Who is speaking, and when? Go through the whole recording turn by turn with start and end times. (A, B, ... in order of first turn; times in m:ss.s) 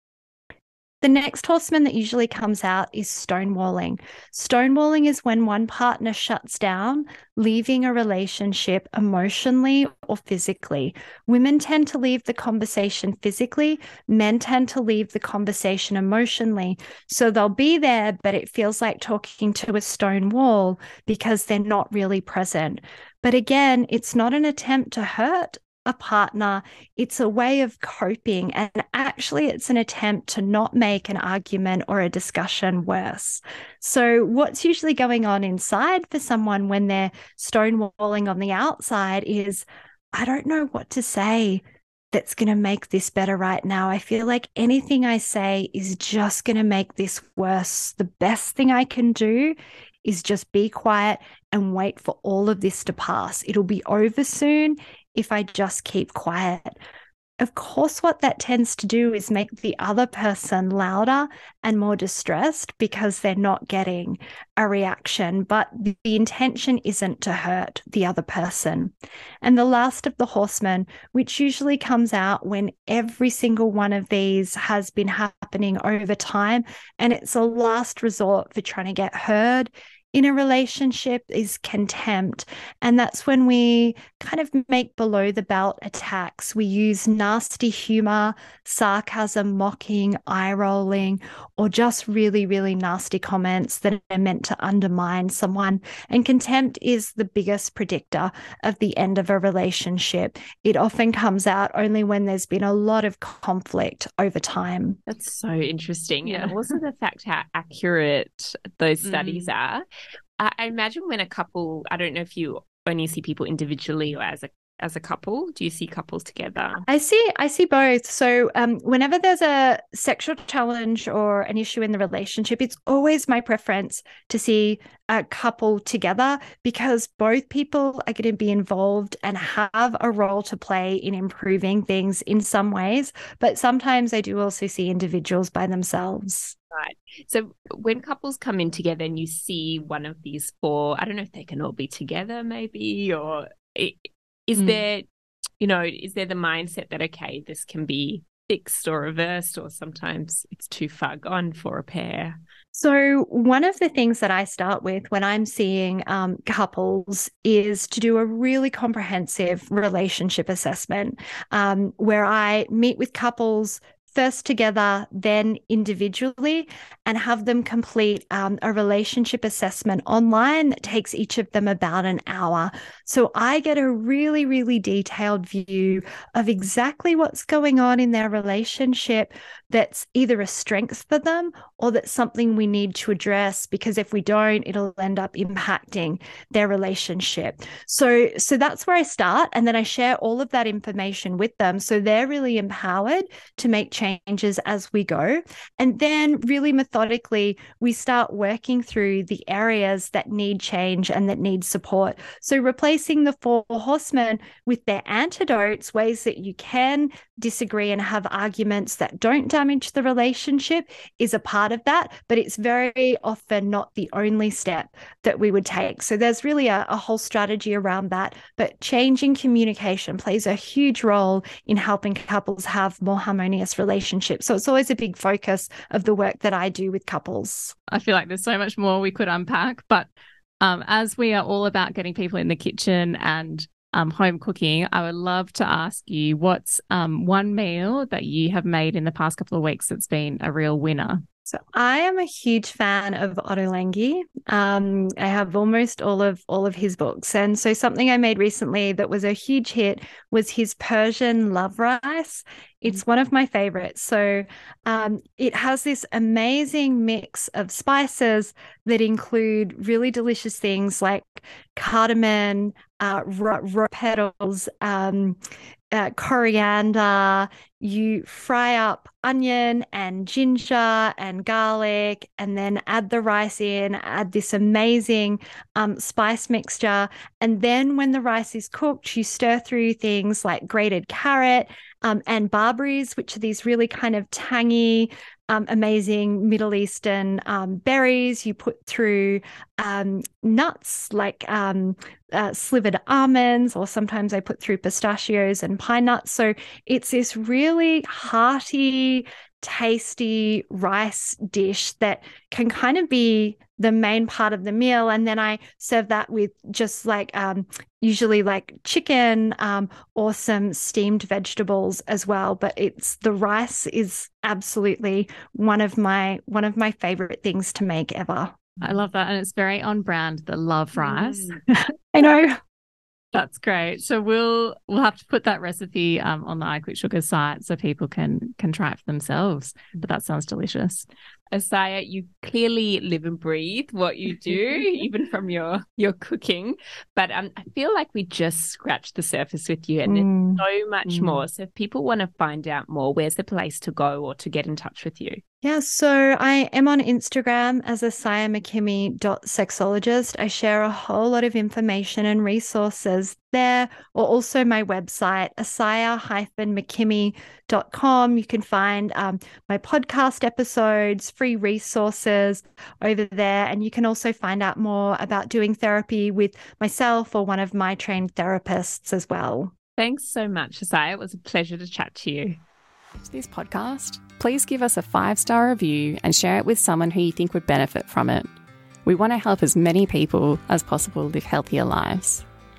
0:01.0-0:56.8 A
0:57.4-1:45.0 A
1:45.1-1:49.8 B
1:46.3-1:46.5 C
1:50.4-1:56.8 B
1:56.9-2:16.5 A
2:16.7-2:25.1 B
2:25.6-2:32.4 B
2:32.7-3:47.8 A
3:47.9-3:50.1 C
3:50.6-4:01.2 C
4:01.5-4:25.4 A
4:25.9-5:18.6 A
5:18.8-5:21.6 C
5:22.1-5:22.6 A
5:23.3-5:31.1 C
5:31.5-5:45.4 B
5:40.1-5:40.6 A
5:45.6-6:09.7 A
6:10.0-6:12.6 B
6:13.2-6:18.5 C
6:19.0-6:22.4 C